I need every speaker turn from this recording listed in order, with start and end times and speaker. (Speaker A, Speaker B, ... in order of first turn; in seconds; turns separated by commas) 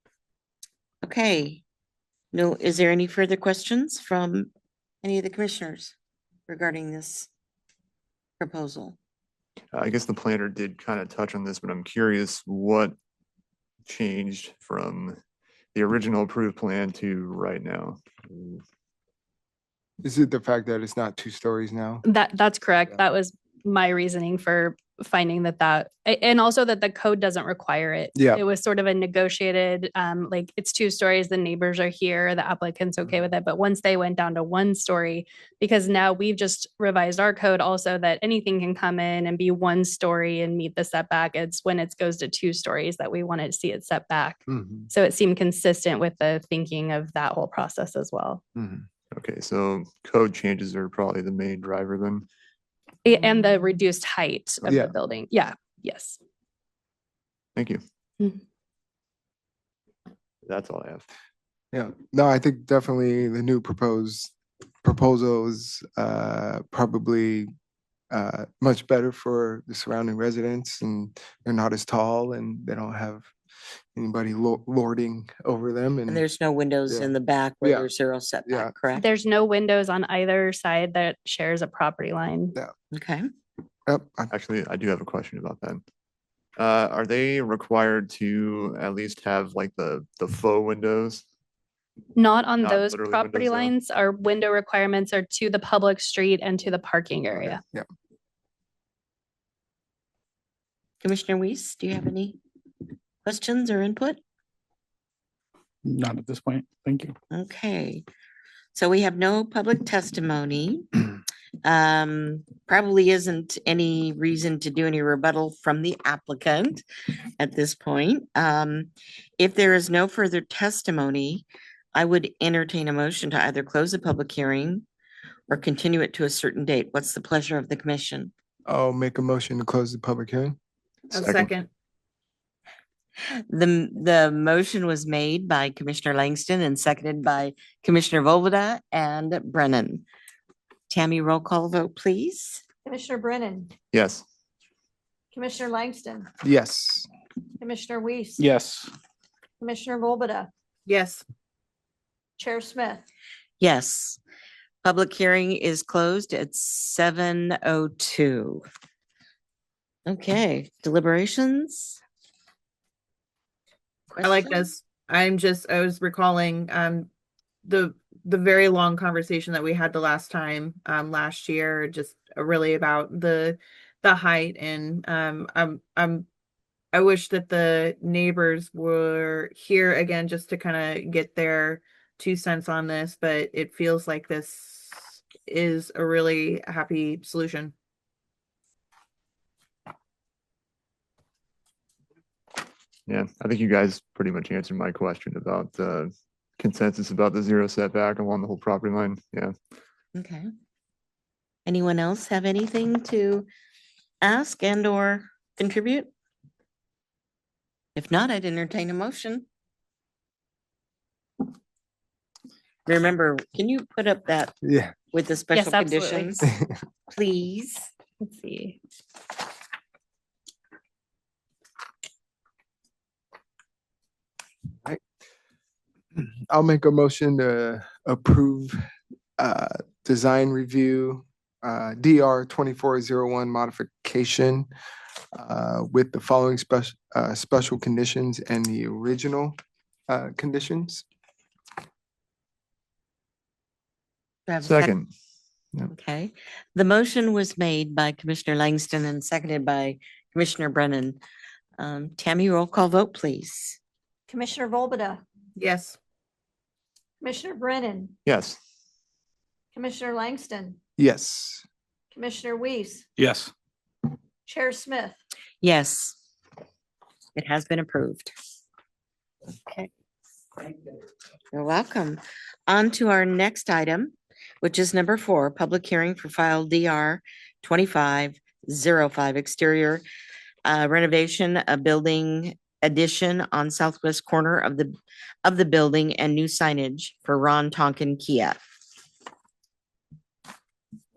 Speaker A: 1.0-1.6, Speaker A: 2.3-4.5, Speaker A: 5.0-6.0, Speaker A: 6.5-7.3, Speaker A: 8.4-9.0, Speaker B: 9.7-13.0, Speaker B: 13.9-15.2, Speaker B: 15.8-18.6, Speaker C: 20.0-22.0, Speaker D: 22.0-48.4, Speaker C: 28.1-28.4, Speaker C: 44.5-44.9, Speaker C: 48.6-48.9, Speaker B: 49.1-52.3, Speaker D: 53.0-56.2, Speaker C: 54.7-54.9, Speaker B: 57.6-57.8, Speaker B: 60.5-61.0, Speaker C: 61.7-64.3, Speaker C: 64.8-67.5, Speaker C: 68.1-73.3, Speaker C: 74.0-76.2, Speaker A: 76.1-79.1, Speaker C: 76.9-77.9, Speaker C: 78.5-78.7, Speaker D: 78.9-82.5, Speaker A: 82.9-83.3, Speaker C: 83.9-84.3, Speaker B: 84.3-85.8, Speaker B: 86.6-91.2, Speaker D: 92.2-97.6, Speaker B: 92.6-93.7, Speaker C: 97.4-97.9, Speaker A: 101.0-102.4, Speaker A: 103.2-104.2, Speaker E: 105.8-107.1, Speaker A: 107.3-108.0, Speaker A: 108.8-110.9, Speaker A: 111.6-116.8, Speaker A: 117.4-124.9, Speaker A: 125.5-128.3, Speaker C: 128.7-130.6, Speaker F: 131.1-131.7, Speaker B: 131.2-131.5, Speaker A: 133.5-140.1, Speaker A: 140.9-142.6, Speaker G: 142.8-143.7, Speaker B: 143.9-144.2, Speaker G: 145.3-146.3, Speaker C: 146.4-147.1, Speaker G: 147.6-148.5, Speaker E: 148.4-148.9, Speaker G: 149.6-150.5, Speaker F: 150.9-151.2, Speaker G: 152.4-153.1, Speaker A: 153.6-154.2, Speaker A: 154.8-158.6, Speaker A: 160.1-162.0, Speaker A: 164.1-164.7, Speaker F: 164.2-167.1, Speaker F: 167.6-176.3, Speaker F: 176.9-187.7, Speaker B: 193.1-199.5, Speaker A: 200.2-200.5, Speaker A: 201.7-203.5, Speaker A: 204.2-206.1, Speaker A: 207.9-209.5, Speaker A: 212.9-214.6, Speaker C: 214.6-214.9, Speaker A: 215.1-216.5, Speaker D: 215.5-216.4, Speaker A: 217.1-217.9, Speaker D: 218.2-218.8, Speaker C: 226.2-228.8, Speaker C: 229.4-234.7, Speaker C: 235.3-239.6, Speaker C: 240.1-241.1, Speaker A: 244.5-244.9, Speaker B: 244.6-245.1, Speaker A: 245.9-251.2, Speaker A: 251.8-253.8, Speaker G: 254.3-255.2, Speaker F: 255.6-256.0, Speaker G: 257.2-258.1, Speaker B: 258.3-258.6, Speaker G: 259.7-260.8, Speaker C: 261.0-261.6, Speaker G: 262.1-263.1, Speaker E: 263.2-263.5, Speaker G: 264.5-265.2, Speaker A: 265.6-266.2, Speaker A: 267.4-268.3, Speaker A: 271.5-280.0, Speaker A: 280.6-288.6